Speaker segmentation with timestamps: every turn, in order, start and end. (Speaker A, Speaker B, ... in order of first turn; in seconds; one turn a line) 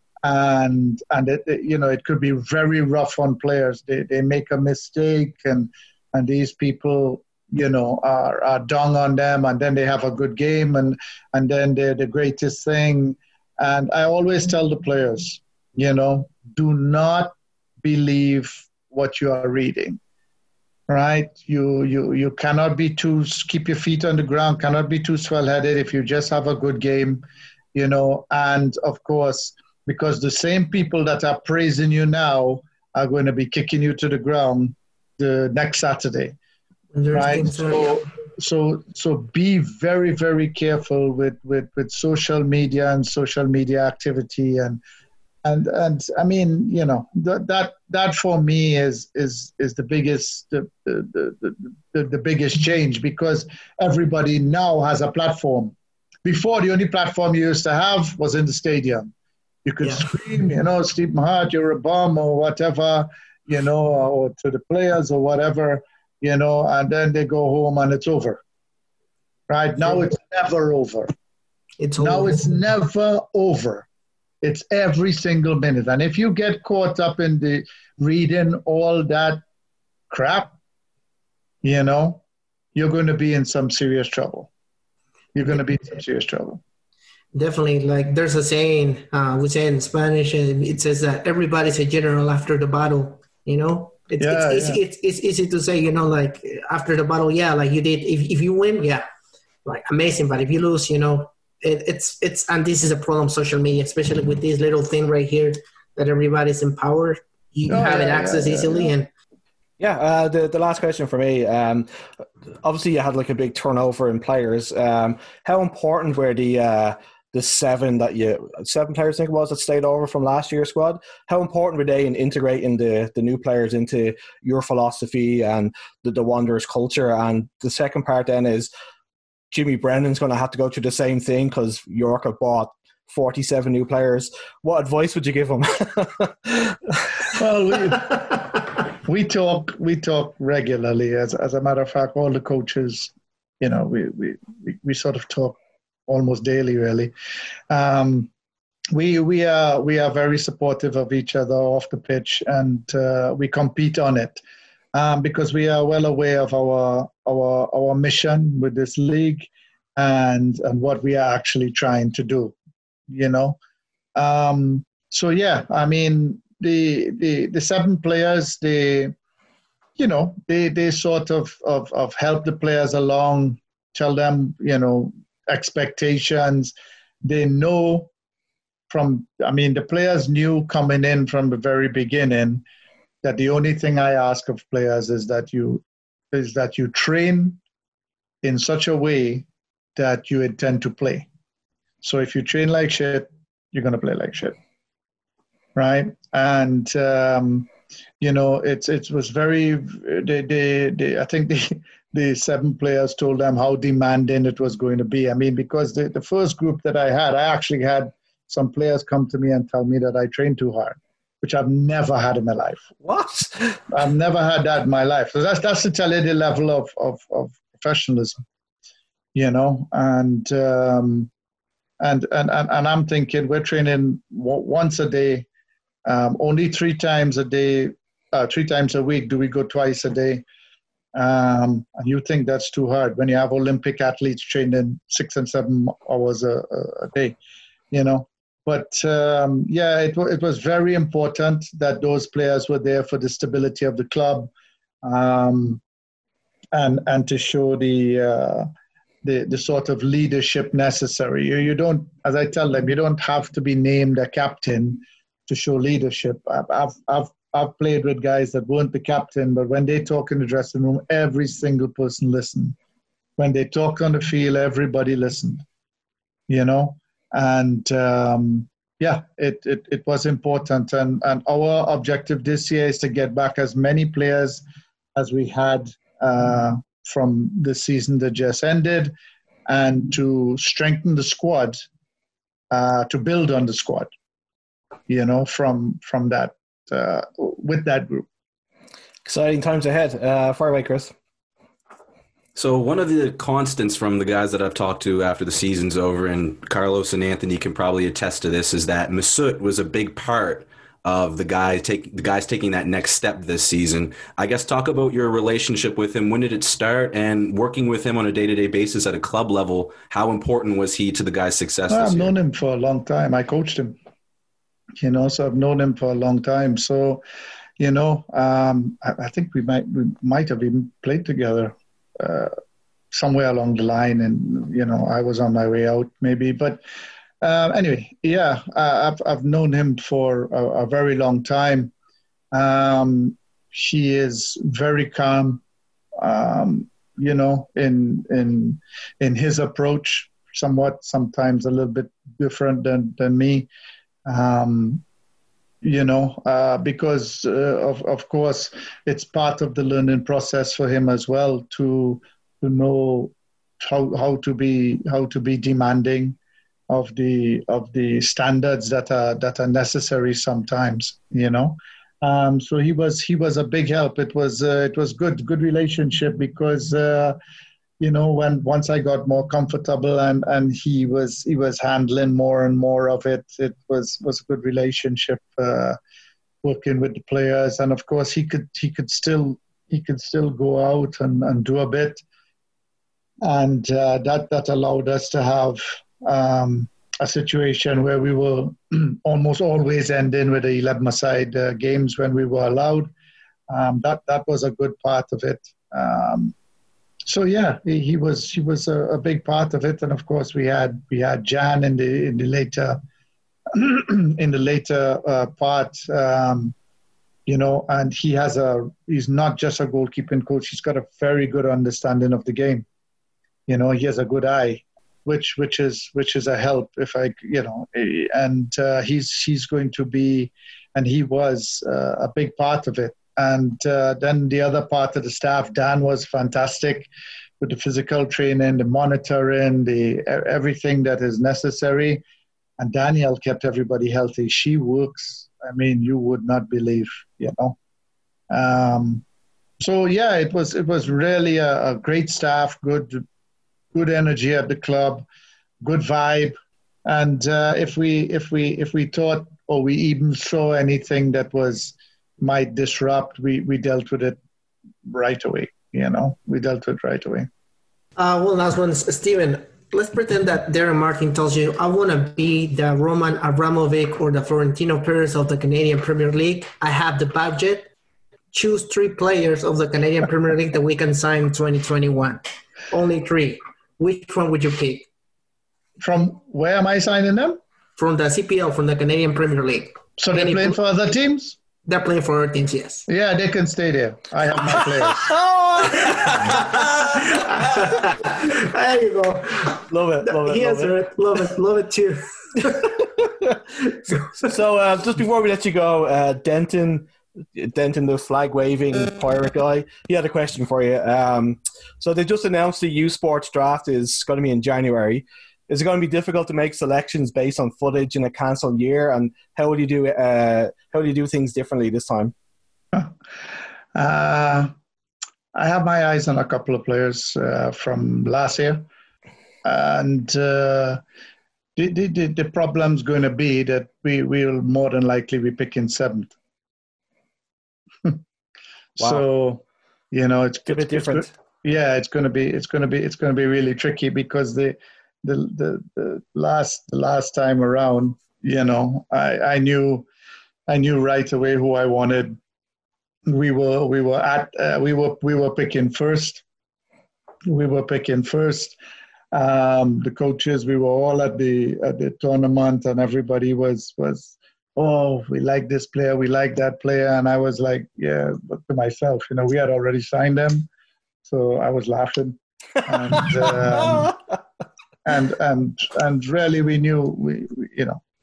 Speaker A: 0.2-20.0
Speaker A: 20.9-27.2
Speaker A: 27.7-36.4
Speaker B: 36.9-38.0
Speaker A: 37.1-44.8
Speaker A: 45.4-55.7
Speaker A: 56.2-59.1
Speaker A: 59.6-68.4
Speaker A: 69.5-71.1
Speaker B: 71.8-72.6
Speaker A: 72.0-73.9
Speaker A: 74.4-79.4
Speaker A: 80.1-80.5
Speaker A: 81.6-82.2
Speaker A: 82.8-84.5
Speaker A: 85.3-86.6
Speaker B: 87.3-99.0
Speaker A: 94.2-94.8
Speaker B: 99.7-109.1
Speaker A: 107.7-108.9
Speaker C: 109.8-111.9
Speaker C: 112.6-128.7
Speaker C: 129.5-137.0
Speaker A: 137.3-147.1
Speaker A: 147.7-148.3
Speaker A: 148.9-154.4
Speaker A: 154.9-162.6
Speaker A: 163.1-163.6
Speaker A: 164.2-169.1
Speaker A: 170.0-178.1
Speaker A: 178.9-182.6
Speaker A: 183.2-187.6
Speaker A: 188.4-191.3
Speaker A: 192.0-194.6
Speaker A: 195.8-212.8
Speaker C: 213.0-213.8
Speaker A: 213.9-218.4
Speaker A: 219.3-221.3
Speaker A: 222.0-225.5
Speaker A: 226.1-230.4
Speaker A: 231.1-237.4
Speaker A: 237.9-244.5
Speaker A: 245.0-245.8
Speaker A: 246.7-248.7
Speaker A: 249.2-262.8
Speaker A: 263.4-265.6
Speaker A: 266.5-274.6
Speaker A: 275.1-279.1
Speaker A: 279.7-281.8
Speaker A: 282.7-284.1
Speaker A: 285.1-288.2
Speaker C: 289.3-291.1
Speaker D: 292.6-312.3
Speaker A: 311.9-314.0
Speaker A: 315.0-317.2
Speaker A: 317.8-322.6
Speaker A: 323.1-326.8
Speaker A: 327.4-331.9
Speaker A: 332.5-335.6
Speaker A: 336.2-343.7
Speaker A: 344.3-345.0
Speaker A: 345.8-356.4
Speaker A: 356.9-367.4
Speaker A: 368.0-376.0
Speaker A: 376.6-382.2
Speaker A: 383.4-393.1
Speaker A: 393.7-396.5
Speaker A: 397.3-403.0
Speaker A: 403.7-406.8
Speaker A: 407.5-412.9
Speaker A: 413.7-432.2
Speaker A: 432.8-437.8
Speaker A: 438.5-439.2
Speaker A: 439.8-443.2
Speaker A: 443.9-445.2
Speaker A: 445.8-454.4
Speaker A: 455.1-457.5
Speaker B: 458.2-467.9
Speaker B: 468.5-475.1
Speaker A: 476.0-477.6
Speaker B: 478.0-480.8
Speaker A: 480.2-481.6
Speaker B: 481.9-483.1
Speaker A: 483.1-485.4
Speaker C: 485.2-486.7
Speaker B: 486.9-492.9
Speaker C: 489.9-491.0
Speaker B: 493.9-494.2
Speaker C: 494.3-512.3
Speaker A: 514.0-514.7
Speaker A: 515.5-518.9
Speaker A: 519.6-521.0
Speaker A: 521.8-526.3
Speaker A: 529.0-540.1
Speaker C: 529.0-529.2
Speaker C: 530.7-531.3
Speaker A: 540.7-542.4
Speaker A: 543.3-546.4
Speaker A: 547.5-548.8
Speaker A: 549.3-560.7
Speaker A: 561.2-564.2
Speaker C: 563.1-564.1
Speaker A: 565.0-568.0